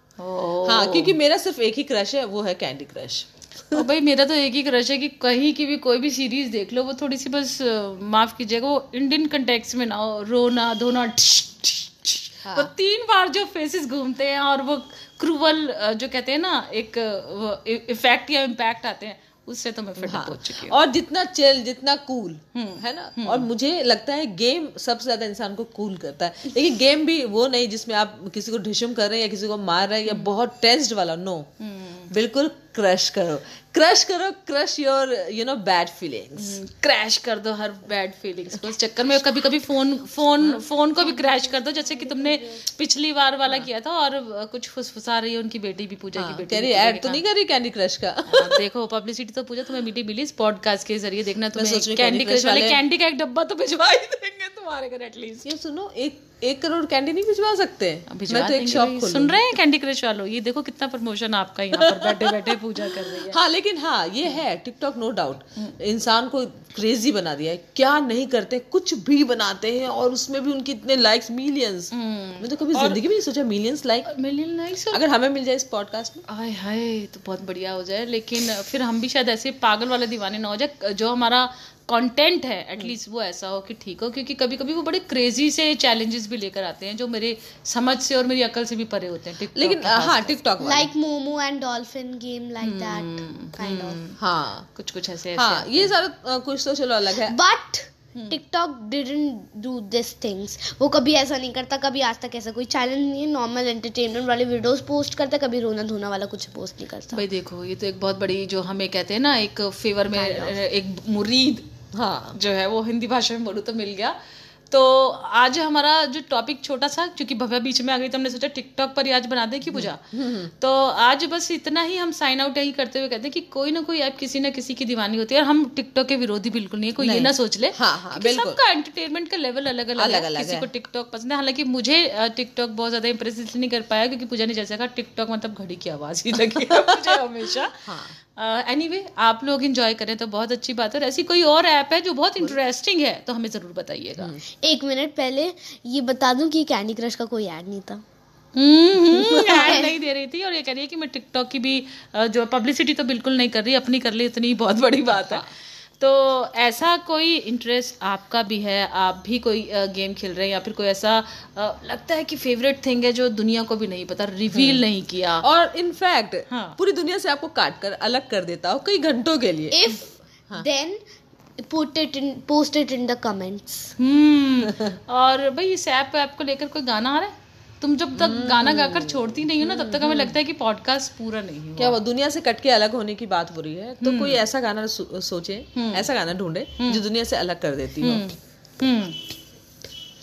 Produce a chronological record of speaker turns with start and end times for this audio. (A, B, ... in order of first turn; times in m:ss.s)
0:00.2-0:01.2 A
0:00.6-0:03.9 B
0:03.7-0:20.8 A
0:12.4-0:12.7 B
0:20.0-0:31.5 B
0:22.5-0:23.5 A
0:30.0-0:30.3 A
0:31.6-0:32.1 A
0:32.1-0:36.6 B
0:36.4-0:47.2 A
0:46.2-0:48.6 B
0:48.3-0:55.6 A
0:51.5-0:52.8 B
0:55.4-0:59.4 B
0:58.1-1:03.4 A
1:01.7-1:02.6 B
1:03.1-1:14.1 B
1:11.9-1:13.0 A
1:14.0-1:15.0 A
1:14.9-1:16.2 B
1:16.3-1:30.4 A
1:29.5-1:30.9 B
1:30.6-1:34.0 C
1:32.6-1:34.2 A
1:34.2-1:34.7 B
1:34.7-1:35.9 A
1:35.3-1:37.3 B
1:37.1-1:47.2 C
1:47.1-1:51.7 A
1:50.1-1:50.6 C
1:51.9-1:52.4 B
1:52.3-1:54.2 A
1:54.7-2:24.4 A
1:59.7-2:00.5 B
2:07.0-2:08.6 B
2:10.0-2:10.7 B
2:17.9-2:18.1 B
2:24.5-2:28.0 C
2:28.5-2:35.5 A
2:29.2-2:29.7 B
2:29.4-2:29.9 C
2:35.2-2:35.5 B
2:36.0-2:45.4 A
2:44.5-2:44.8 B
2:45.4-2:49.9 B
2:46.5-2:46.8 A
2:49.7-2:51.0 C
2:51.6-2:53.9 C
2:54.0-3:02.0 A
2:58.1-3:00.4 B
3:01.8-3:08.2 B
3:04.0-3:04.4 A
3:05.7-3:06.1 A
3:06.8-3:07.0 A
3:08.0-3:09.2 A